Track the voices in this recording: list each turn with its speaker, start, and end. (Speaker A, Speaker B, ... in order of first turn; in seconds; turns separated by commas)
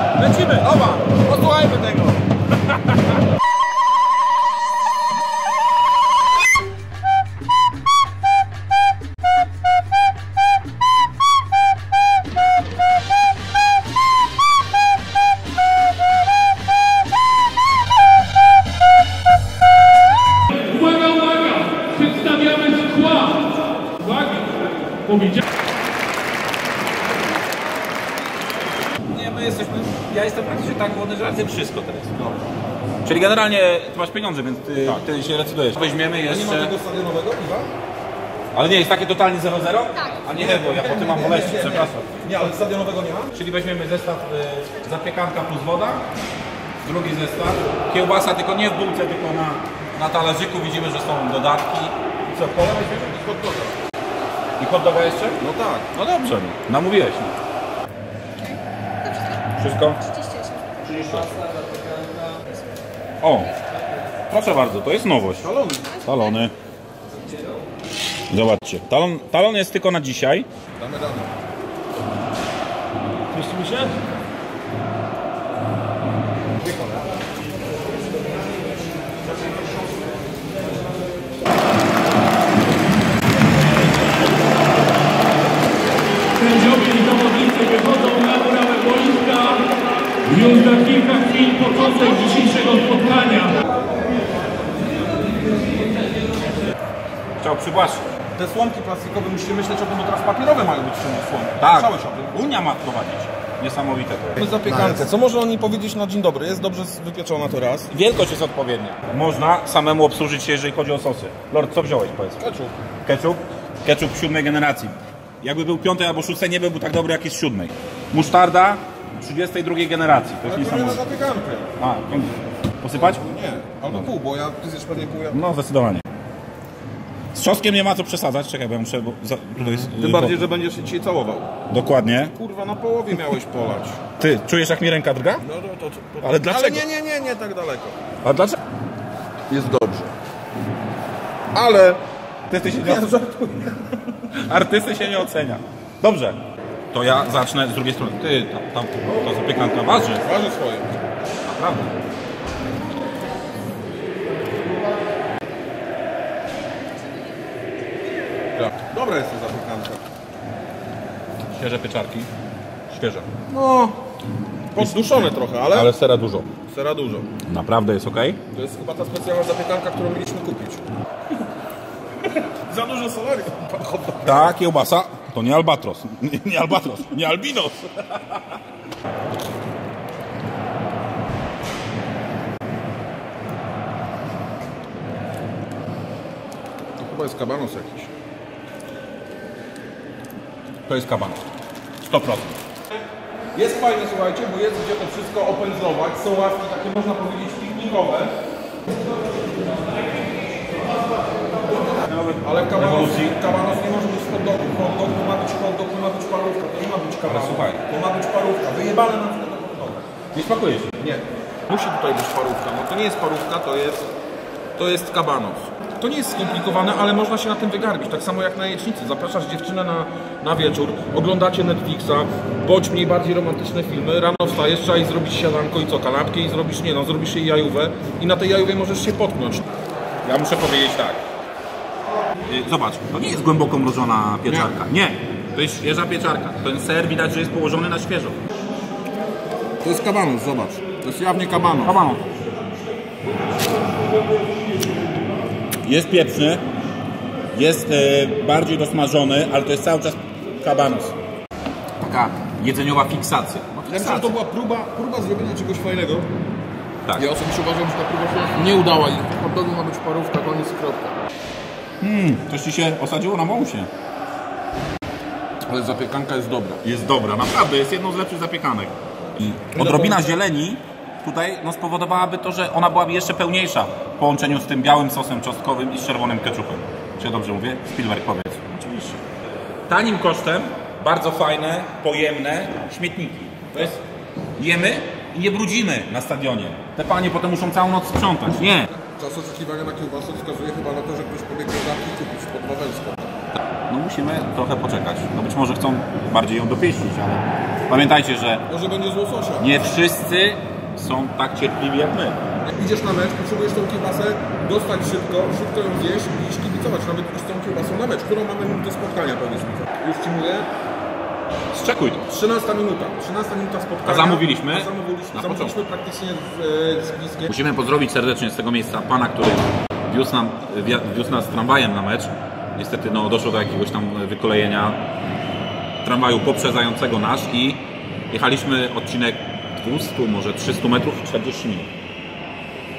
Speaker A: 0.2-3.0, Speaker B: 20.7-23.4, Speaker B: 24.0-25.4, Speaker A: 29.1-32.2, Speaker A: 33.0-36.7, Speaker C: 36.2-37.7, Speaker A: 38.5-42.2, Speaker C: 40.3-43.4, Speaker A: 43.3-46.0, Speaker A: 46.8-53.1, Speaker C: 52.3-53.8, Speaker A: 54.6-55.4, Speaker C: 55.4-56.0, Speaker A: 56.0-57.3, Speaker A: 59.5-60.0, Speaker B: 60.2-60.7, Speaker A: 60.8-61.4, Speaker A: 63.2-63.6, Speaker A: 64.3-65.5, Speaker C: 65.4-65.9, Speaker A: 66.0-66.5, Speaker A: 68.3-70.5, Speaker C: 70.8-71.3, Speaker B: 73.3-74.0, Speaker B: 86.4-89.7, Speaker B: 90.2-93.6, Speaker A: 97.4-98.0, Speaker C: 98.3-102.4, Speaker A: 101.6-104.4, Speaker C: 104.4-107.9, Speaker A: 107.9-112.4, Speaker C: 112.4-112.8, Speaker A: 113.0-121.0, Speaker C: 120.4-121.8, Speaker A: 121.8-123.2, Speaker C: 122.9-125.4, Speaker A: 125.3-126.0, Speaker A: 127.3-130.4, Speaker C: 129.6-131.5, Speaker A: 131.7-132.3, Speaker C: 132.3-134.0, Speaker A: 134.2-135.4, Speaker C: 135.4-138.0, Speaker A: 136.2-136.8, Speaker A: 138.2-138.6, Speaker C: 139.5-140.1, Speaker C: 141.5-141.9, Speaker A: 141.6-141.9, Speaker A: 142.5-143.1, Speaker C: 142.6-143.8, Speaker A: 144.3-146.4, Speaker A: 146.9-150.2, Speaker C: 150.2-150.9, Speaker A: 151.4-151.9, Speaker C: 158.6-160.0, Speaker A: 161.5-162.3, Speaker A: 162.9-163.3, Speaker C: 163.5-164.0, Speaker C: 164.7-165.9, Speaker A: 164.8-166.5, Speaker C: 166.5-167.3, Speaker A: 167.4-168.4, Speaker C: 168.5-170.8, Speaker C: 172.3-174.6, Speaker A: 174.2-178.4, Speaker C: 187.0-188.1, Speaker A: 190.9-191.4, Speaker A: 192.0-192.6, Speaker C: 193.5-198.3, Speaker A: 201.8-203.4, Speaker C: 202.4-210.1, Speaker A: 207.2-207.8, Speaker A: 210.3-210.9, Speaker C: 211.0-214.1, Speaker C: 214.8-229.6, Speaker A: 230.2-231.2, Speaker A: 232.5-238.4, Speaker C: 234.5-234.7, Speaker C: 239.8-241.9, Speaker A: 241.8-242.2, Speaker A: 245.8-246.6, Speaker A: 247.5-251.1, Speaker A: 252.0-254.3, Speaker C: 253.8-256.3, Speaker C: 257.1-261.2, Speaker A: 262.0-263.9, Speaker C: 265.6-266.8, Speaker A: 266.8-278.9, Speaker C: 269.7-270.3, Speaker C: 278.8-279.2, Speaker A: 279.9-283.9, Speaker C: 283.7-284.0, Speaker A: 284.6-288.9, Speaker C: 289.0-293.3, Speaker A: 293.9-298.6, Speaker C: 298.7-299.9, Speaker A: 299.6-302.4, Speaker C: 302.6-310.7, Speaker A: 311.7-312.3, Speaker C: 312.3-317.5, Speaker A: 314.0-315.7, Speaker A: 317.5-325.0, Speaker A: 326.0-331.9